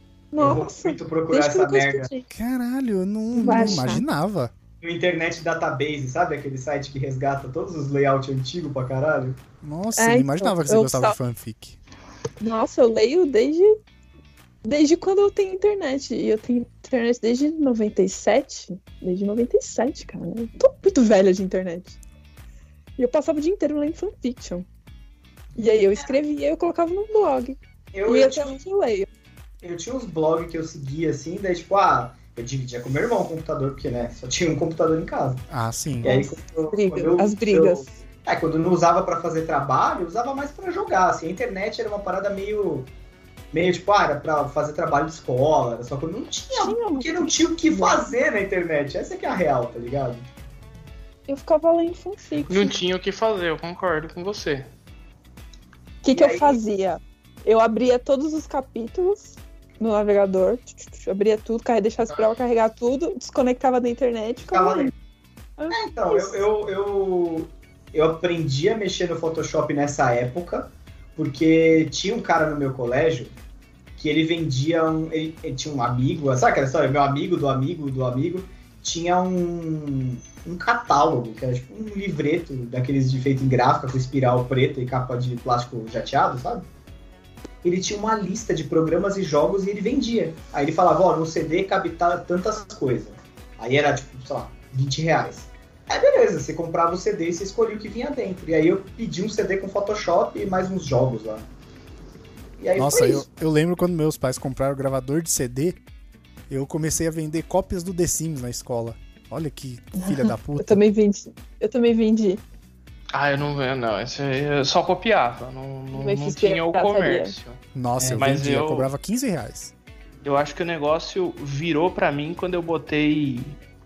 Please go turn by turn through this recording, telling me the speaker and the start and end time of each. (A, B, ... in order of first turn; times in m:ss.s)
0:00.3-0:02.3 A
0:00.4-0:02.1 B
0:02.3-0:04.5 C
0:03.3-0:04.1 A
0:03.5-0:03.8 B
0:04.8-0:09.4 B
0:09.6-0:11.8 C
0:10.0-0:11.2 A
0:12.4-0:13.8 A
0:14.6-0:22.0 A
0:23.0-0:24.7 A
0:25.6-0:29.1 A
0:27.9-0:28.6 B
0:29.6-0:35.4 B
0:35.5-0:36.1 C
0:36.0-0:42.9 B
0:36.0-0:37.9 A
0:43.5-0:50.2 B
0:46.6-0:48.1 A
0:51.3-0:52.8 A
0:52.5-0:54.7 D
0:56.0-1:04.9 A
0:56.1-0:56.6 B
1:04.4-1:04.9 B
1:05.6-1:06.4 A
1:05.7-1:13.3 B
1:14.0-1:26.7 B
1:27.6-1:41.4 B
1:42.6-1:43.3 B
1:42.8-1:45.8 C
1:46.5-1:50.8 C
1:50.0-1:52.4 A
1:53.1-1:57.6 D
1:55.9-1:57.3 A
1:57.8-1:59.7 C
1:58.0-1:58.3 B
1:58.2-1:58.9 D
2:00.2-2:03.6 D